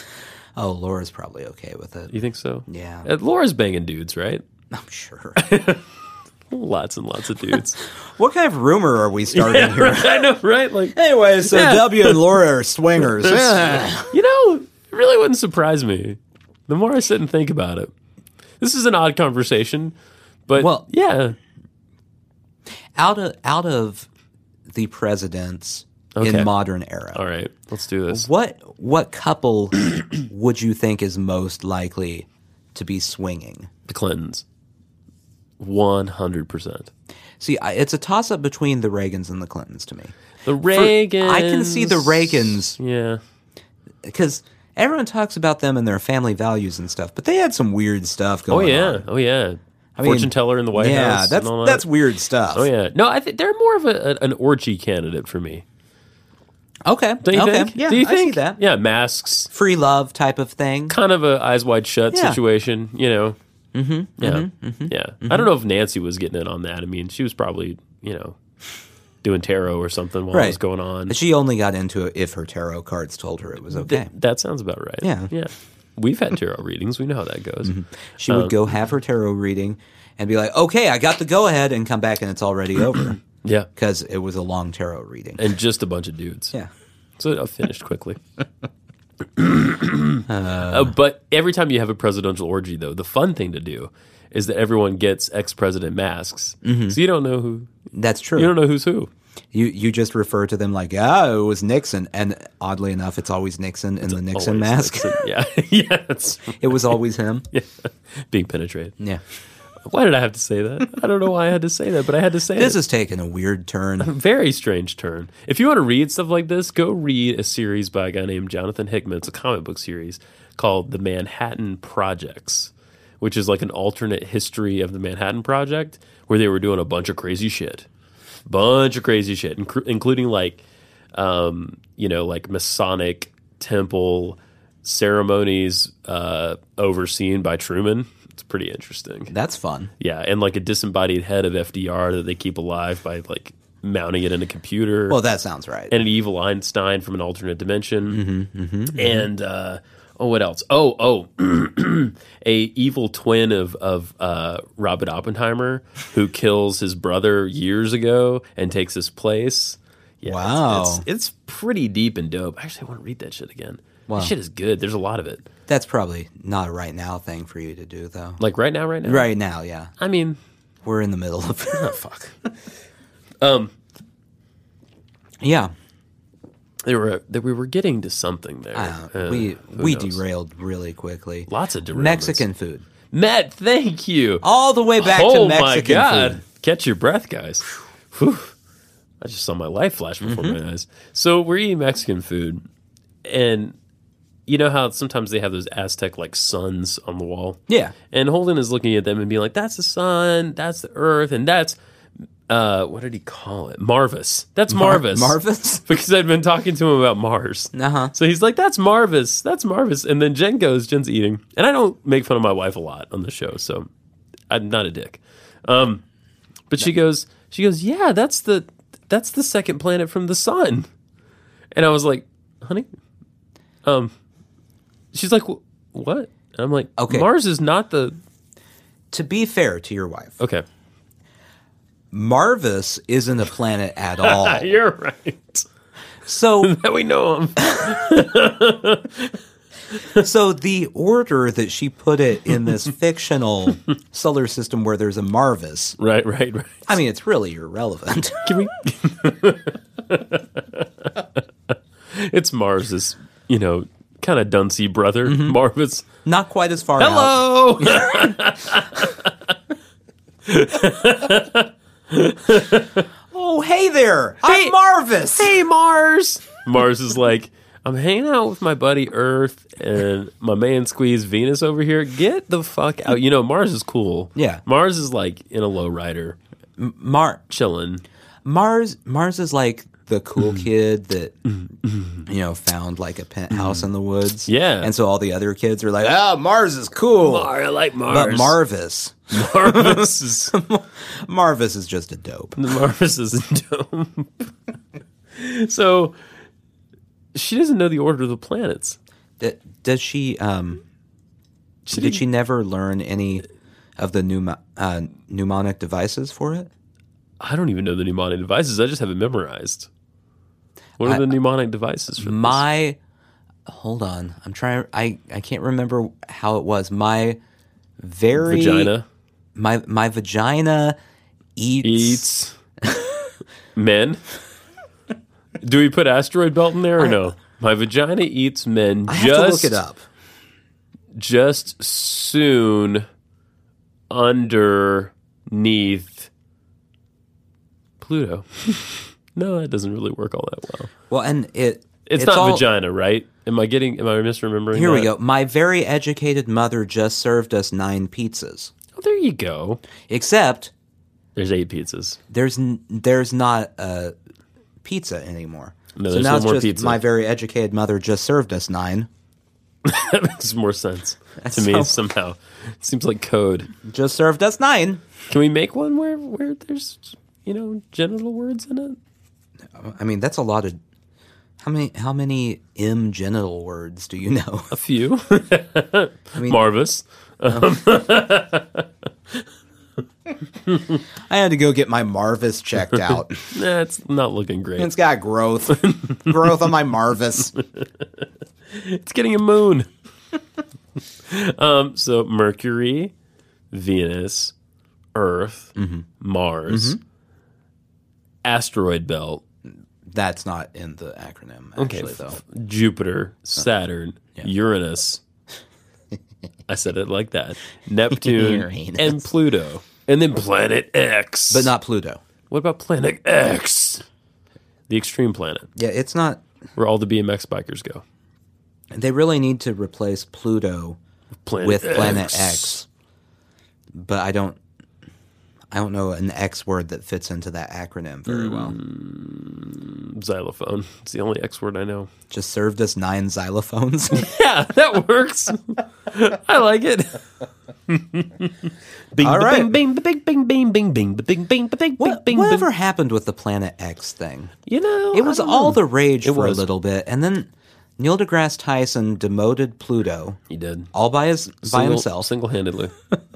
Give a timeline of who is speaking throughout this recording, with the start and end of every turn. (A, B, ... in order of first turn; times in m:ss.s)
0:00.6-0:02.1 A
0:02.1-0:04.4 B
0:02.7-0:03.1 A
0:04.7-0:05.5 A
0:05.4-0:05.8 B
0:06.5-0:07.8 B
0:08.0-0:10.3 A
0:09.3-0:12.3 B
0:10.9-0:14.1 A
0:13.2-0:17.9 B
0:18.6-0:20.0 B
0:20.5-0:21.4 B
0:20.6-0:20.9 A
0:23.0-0:24.1 A
0:24.7-0:27.2 A
0:26.2-0:26.5 B
0:27.1-0:28.3 B
0:28.1-0:33.7 A
0:33.9-0:34.4 B
0:35.6-0:36.9 B
0:37.4-0:40.1 A
0:40.4-0:43.2 B
0:40.7-0:42.8 A
0:44.0-0:49.0 A
0:48.5-0:51.9 B
0:50.0-0:52.7 A
0:52.5-0:55.6 B
0:56.8-0:58.6 A
0:57.2-0:59.5 B
0:59.5-1:01.0 A
1:00.9-1:03.4 B
1:02.1-1:02.4 A
1:03.7-1:05.5 A
1:04.2-1:08.4 B
1:09.2-1:11.2 B
1:10.3-1:14.1 A
1:13.7-1:18.6 B
1:15.0-1:15.3 A
1:17.6-1:23.2 A
1:23.4-1:23.7 B
1:23.8-1:25.5 A
1:25.4-1:26.5 B
1:27.2-1:28.2 B
1:29.4-1:37.7 B
1:30.3-1:31.0 A
1:36.6-1:37.0 A
1:37.9-1:38.5 A
1:38.4-1:39.1 B
1:39.5-1:45.2 A
1:44.1-1:46.9 B
1:46.6-1:47.5 A
1:47.5-1:49.0 B
1:49.8-1:52.8 B
1:52.6-1:54.1 A
1:54.0-2:07.9 B
2:08.5-2:10.6 B
2:11.1-2:19.3 B
2:19.3-2:19.9 A
2:20.0-2:25.2 B
2:25.1-2:25.9 A
2:25.9-2:28.2 B
2:28.1-2:29.3 A
2:28.9-2:45.5 B
2:40.2-2:41.0 A
2:44.1-2:44.4 A
2:45.7-2:48.4 A
2:48.4-2:49.3 B
2:49.0-2:49.9 A
2:50.0-2:50.4 B
2:50.8-2:52.0 A
2:51.7-2:52.4 B
2:53.4-2:53.7 B
2:55.4-2:55.7 A
2:56.8-3:00.2 B
2:58.8-3:02.8 A
3:01.5-3:02.5 B
3:03.1-3:04.5 B
3:04.4-3:06.4 A
3:05.0-3:08.5 B
3:09.2-3:12.6 B
3:10.2-3:10.6 A
3:13.2-3:13.8 B
3:14.5-3:21.8 B
3:17.7-3:18.0 A
3:22.5-3:33.9 B
3:24.7-3:25.9 A
3:27.7-3:28.1 A
3:34.5-3:36.0 B
3:36.7-3:40.9 B
3:41.7-3:42.9 B
3:43.8-3:44.1 B
3:45.1-3:48.2 B
3:47.0-3:47.3 A
3:49.1-3:50.4 A
3:50.4-3:50.6 B
3:52.1-3:54.7 A
3:54.2-3:55.7 B
3:56.3-3:56.8 A
3:56.6-3:59.4 B
4:00.2-4:06.0 A
4:06.0-4:06.9 B
4:06.9-4:08.6 A
4:08.4-4:11.1 B
4:12.1-4:16.1 B
4:15.2-4:15.6 A
4:16.2-4:18.4 A
4:17.0-4:19.3 B
4:20.5-4:23.1 B
4:23.3-4:25.6 A
4:24.4-4:24.8 B
4:25.4-4:36.4 B
4:34.4-4:34.6 A
4:36.8-4:37.4 A
4:37.5-4:38.0 B
4:38.4-4:41.4 A
4:41.5-4:42.3 B
4:42.3-4:47.5 A
4:43.5-4:43.9 B
4:44.5-4:44.9 B
4:47.2-4:48.6 B
4:48.1-4:52.6 A
4:49.3-4:50.6 B
4:52.6-4:54.5 B
4:55.4-4:56.2 B
4:57.3-4:59.0 B
4:59.4-5:00.8 A
5:01.9-5:02.2 B
5:01.9-5:03.5 A
5:04.0-5:06.7 A
5:07.4-5:09.9 B
5:11.0-5:12.6 B
5:11.0-5:11.3 A
5:12.2-5:13.0 A
5:13.7-5:17.4 A
5:18.0-5:18.9 A
5:18.4-5:19.1 B
5:19.6-5:21.0 A
5:21.6-5:22.3 A
5:21.8-5:22.6 B
5:22.8-5:23.1 A
5:23.8-5:24.2 B
5:25.6-5:29.8 B
5:29.1-5:30.0 A
5:31.2-5:33.1 B
5:34.1-5:36.3 B
5:38.0-5:40.9 B
5:41.1-5:42.6 A
5:42.1-5:45.1 B
5:44.7-5:48.7 A
5:49.0-5:49.8 B
5:50.1-5:50.7 A
5:51.4-5:52.2 B
5:52.3-5:54.1 A
5:54.8-5:59.1 A
5:56.0-5:57.0 B
5:59.8-6:03.7 B
6:01.4-6:02.0 A
6:03.8-6:05.0 A
6:05.3-6:09.0 B
6:09.7-6:10.8 A
6:11.6-6:14.8 A
6:14.7-6:19.4 B
6:16.4-6:16.6 A
6:17.5-6:17.8 A
6:20.7-6:21.0 B
6:21.3-6:23.5 A
6:23.5-6:24.9 B
6:24.8-6:27.5 A
6:25.7-6:26.5 B
6:28.7-6:29.9 B
6:31.3-6:33.1 B
6:33.7-6:34.5 B
6:35.2-6:37.0 B
6:35.8-6:36.1 A
6:36.7-6:37.0 A
6:38.4-6:39.4 B
6:40.1-6:42.4 A
6:41.8-6:45.2 B
6:46.7-6:51.7 B
6:48.2-6:49.3 A
6:51.5-6:52.2 A
6:52.5-6:54.0 B
6:54.9-6:55.7 B
6:55.8-6:56.4 A
6:56.8-6:58.0 B
6:58.9-7:01.0 A
7:01.5-7:02.8 B
7:01.6-7:02.9 A
7:04.0-7:04.6 A
7:05.7-7:08.8 A
7:08.3-7:12.1 B
7:12.3-7:14.3 A
7:14.1-7:17.2 B
7:17.9-7:22.7 B
7:19.2-7:19.7 A
7:22.0-7:24.6 A
7:24.7-7:26.7 B
7:25.1-7:30.4 A
7:30.5-7:30.9 B
7:30.9-7:32.3 A
7:31.6-7:32.9 B